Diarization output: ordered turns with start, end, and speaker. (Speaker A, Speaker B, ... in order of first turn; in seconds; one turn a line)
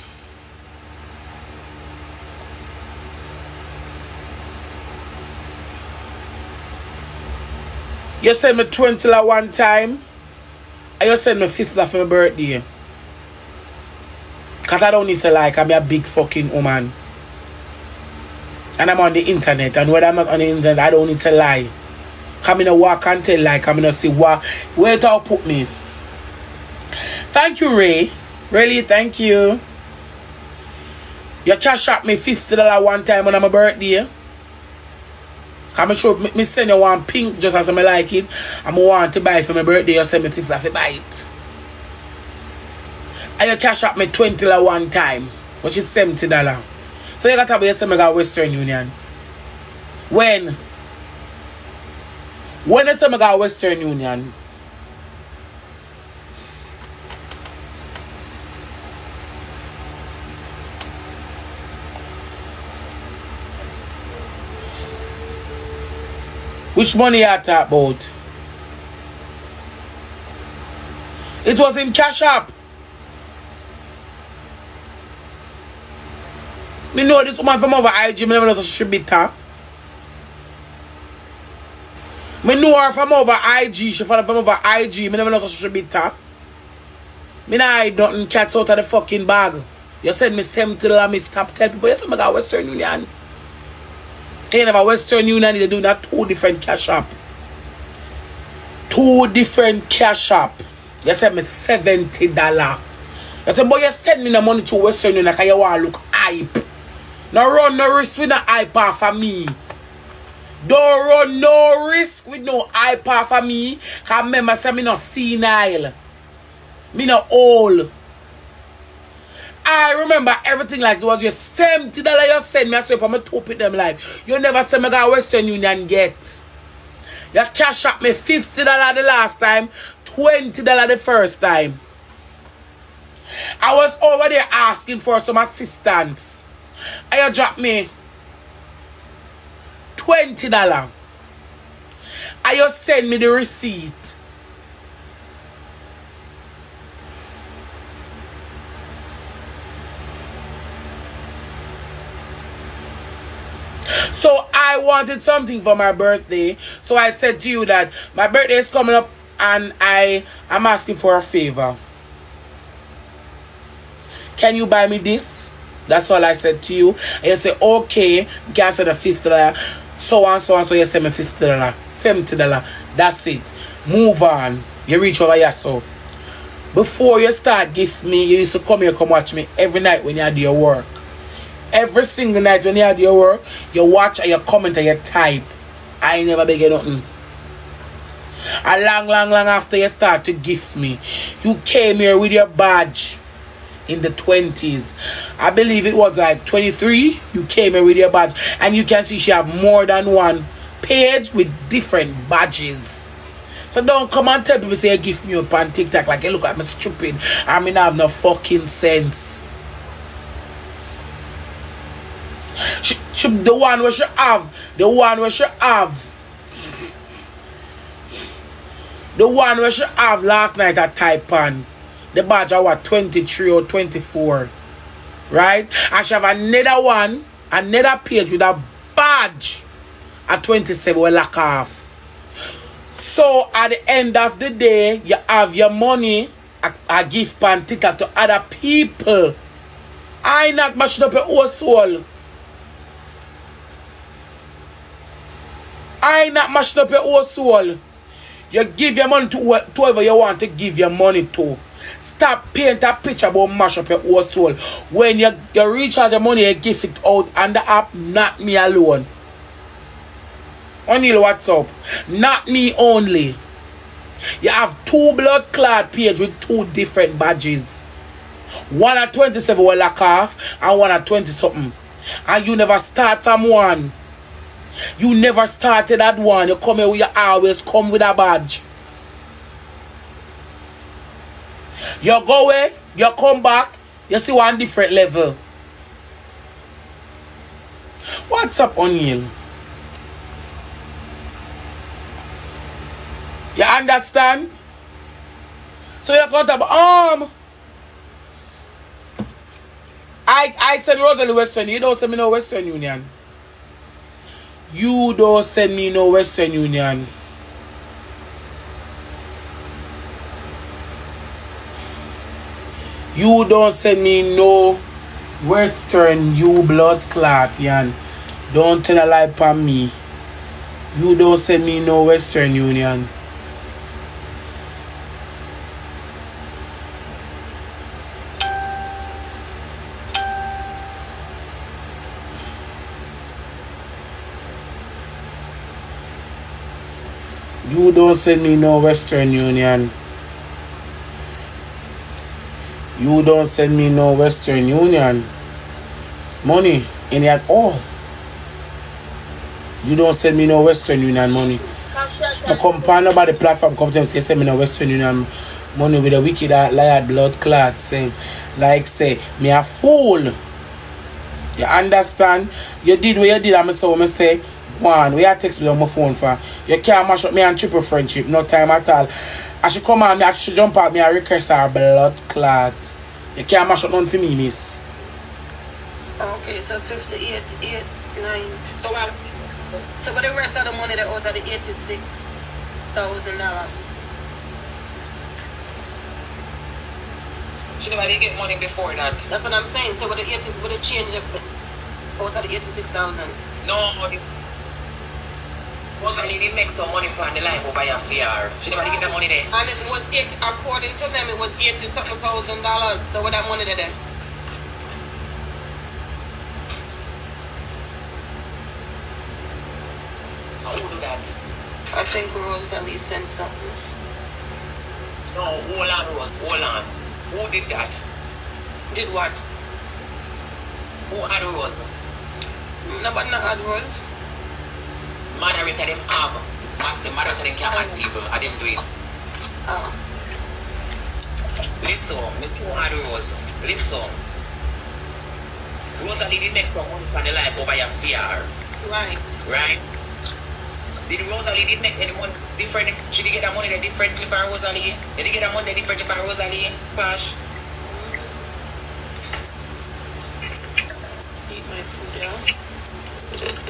Speaker A: 8.2-10.0
Speaker A: 11.0-12.6
Speaker A: 14.7-16.9
Speaker A: 18.8-21.7
Speaker A: 22.4-25.7
Speaker A: 27.3-29.6
Speaker A: 31.4-34.1
Speaker A: 35.7-41.3
Speaker A: 43.4-46.7
Speaker A: 47.2-48.9
Speaker A: 50.1-50.6
Speaker A: 52.6-54.3
Speaker A: 66.8-68.1
Speaker A: 71.4-72.5
Speaker A: 76.9-79.3
Speaker A: 82.4-86.2
Speaker A: 87.5-93.1
Speaker A: 94.5-97.2
Speaker A: 98.9-102.8
Speaker A: 103.5-106.6
Speaker A: 107.3-109.6
Speaker A: 110.6-116.0
Speaker A: 116.9-117.9
Speaker A: 119.7-126.4
Speaker A: 127.3-131.8
Speaker A: 133.6-136.5
Speaker A: 137.1-137.9
Speaker A: 140.0-140.9
Speaker A: 142.4-144.2
Speaker A: 154.1-161.8
Speaker A: 164.4-175.9
Speaker A: 176.7-181.0
Speaker A: 181.7-187.1
Speaker A: 188.6-193.2
Speaker A: 193.9-203.1
Speaker A: 203.7-209.4
Speaker A: 212.7-216.1
Speaker A: 219.2-224.5
Speaker A: 225.3-229.7
Speaker A: 230.3-231.9
Speaker A: 232.9-239.4
Speaker A: 240.2-242.1
Speaker A: 246.0-247.8
Speaker A: 248.5-259.1
Speaker A: 260.9-263.4
Speaker A: 264.4-267.8
Speaker A: 268.7-273.9
Speaker A: 275.0-278.6
Speaker A: 282.0-285.4
Speaker A: 288.3-289.3
Speaker A: 293.6-294.5
Speaker A: 296.0-297.3
Speaker A: 300.3-303.1
Speaker A: 304.7-307.1
Speaker A: 313.1-314.8
Speaker A: 315.4-318.0
Speaker A: 318.5-319.9
Speaker A: 320.9-323.1
Speaker A: 337.6-339.9
Speaker A: 343.0-345.3
Speaker A: 346.4-347.9
Speaker A: 349.8-351.6
Speaker B: 351.7-353.1
Speaker A: 352.4-360.3
Speaker A: 361.6-369.1
Speaker A: 369.6-374.8
Speaker B: 376.2-378.6
Speaker C: 378.8-379.2
Speaker B: 380.0-383.7
Speaker C: 387.8-389.3
Speaker B: 389.3-391.4
Speaker B: 392.2-393.4
Speaker C: 393.6-394.2
Speaker C: 396.0-399.5
Speaker B: 398.7-404.0
Speaker C: 410.6-411.3
Speaker B: 411.9-413.8
Speaker C: 415.3-418.0
Speaker B: 418.9-419.4
Speaker C: 421.1-421.9
Speaker B: 422.9-424.0
Speaker C: 425.3-428.9
Speaker B: 427.6-428.0
Speaker B: 429.7-430.0
Speaker C: 431.8-434.2
Speaker C: 436.0-438.5
Speaker B: 438.8-439.4
Speaker C: 439.4-439.9
Speaker C: 441.1-447.4
Speaker B: 447.9-448.3
Speaker B: 451.5-452.4